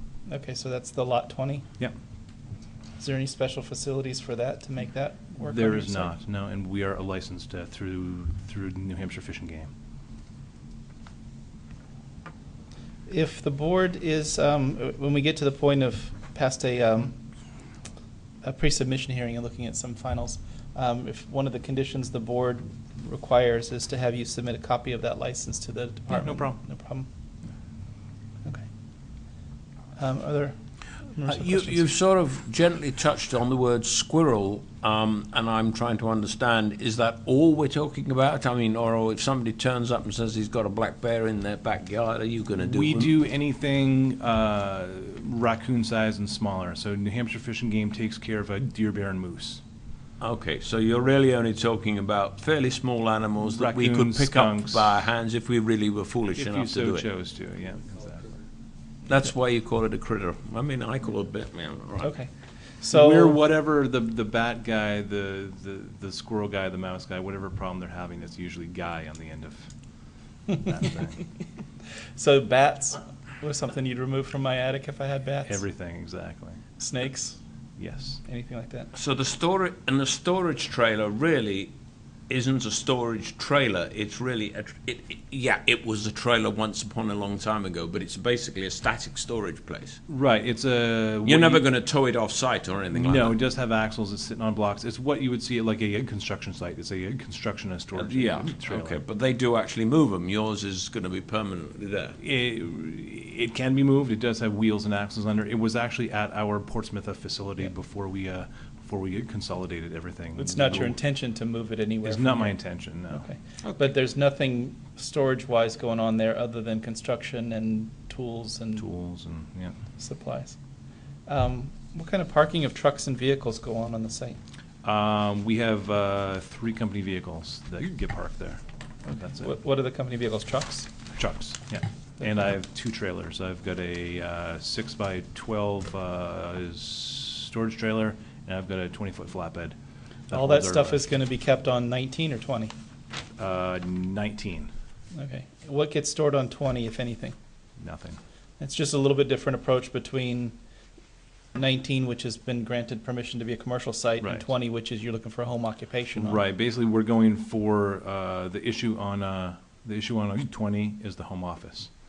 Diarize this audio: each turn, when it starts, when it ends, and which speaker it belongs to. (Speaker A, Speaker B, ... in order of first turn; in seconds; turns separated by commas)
Speaker A: 0.3-1.7, Speaker A: 3.0-6.1, Speaker B: 5.4-9.7, Speaker A: 13.1-17.1, Speaker A: 18.4-27.1, Speaker B: 26.1-26.6, Speaker A: 30.0-31.9, Speaker C: 31.2-43.1, Speaker B: 42.6-49.6, Speaker C: 50.2-57.1, Speaker B: 53.4-55.0, Speaker B: 56.4-58.3, Speaker C: 59.1-62.1, Speaker A: 62.0-63.4, Speaker B: 62.9-69.7, Speaker B: 70.5-71.3, Speaker A: 72.2-75.6, Speaker B: 75.5-76.6, Speaker A: 76.8-77.4, Speaker B: 77.8-78.2, Speaker A: 78.2-78.9, Speaker C: 78.9-81.7, Speaker C: 82.3-90.0, Speaker B: 90.1-91.7, Speaker C: 91.2-93.4, Speaker B: 92.9-99.0, Speaker C: 98.0-102.2, Speaker B: 102.2-111.0, Speaker A: 110.3-118.9, Speaker B: 112.0-113.3, Speaker C: 113.6-113.9, Speaker B: 118.8-119.8, Speaker A: 120.0-120.6, Speaker A: 121.3-124.4, Speaker B: 124.8-128.6, Speaker A: 129.1-130.9, Speaker B: 129.2-129.5, Speaker B: 131.1-139.8, Speaker B: 140.3-141.0, Speaker A: 140.3-142.7, Speaker B: 143.4-144.7, Speaker A: 145.1-147.4, Speaker B: 147.8-148.2, Speaker A: 148.6-150.6, Speaker A: 151.5-156.4, Speaker B: 154.2-154.5, Speaker B: 156.2-161.9